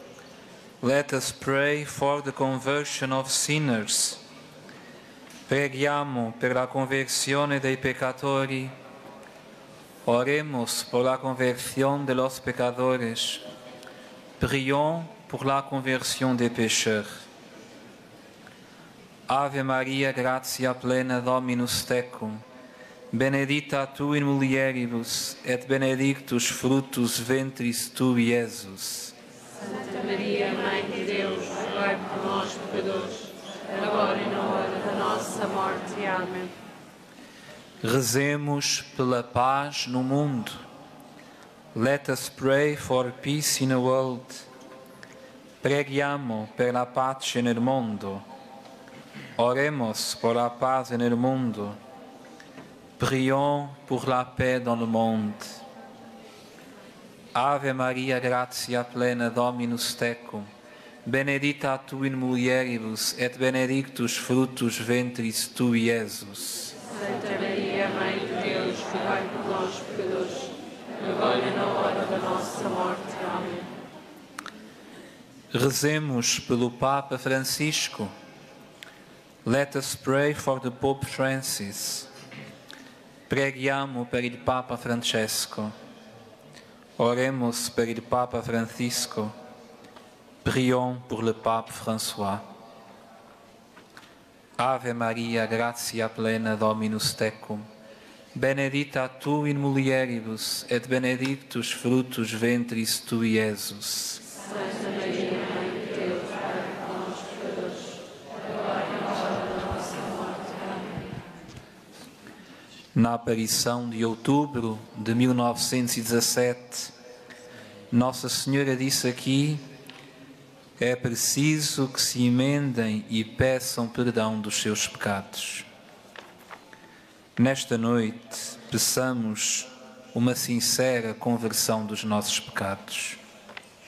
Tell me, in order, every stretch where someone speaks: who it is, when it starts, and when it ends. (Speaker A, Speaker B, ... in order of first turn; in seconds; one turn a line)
Speaker A: 0.8-4.2
Speaker A: 5.5-8.7
Speaker A: 10.0-13.4
Speaker A: 14.4-17.2
Speaker A: 19.3-22.4
Speaker A: 23.1-29.1
Speaker B: 29.6-36.5
Speaker A: 37.8-40.6
Speaker A: 41.7-44.5
Speaker A: 45.6-48.2
Speaker A: 49.4-51.8
Speaker A: 53.0-55.6
Speaker A: 57.3-60.5
Speaker A: 61.0-66.7
Speaker B: 66.9-73.7
Speaker A: 75.5-78.1
Speaker A: 79.4-82.1
Speaker A: 83.3-85.7
Speaker A: 87.0-89.3
Speaker A: 90.4-92.5
Speaker A: 94.6-97.7
Speaker A: 98.3-104.2
Speaker B: 104.4-107.9
Speaker B: 108.5-111.1
Speaker A: 112.9-116.9
Speaker A: 117.9-119.6
Speaker A: 120.8-125.7
Speaker A: 127.4-133.2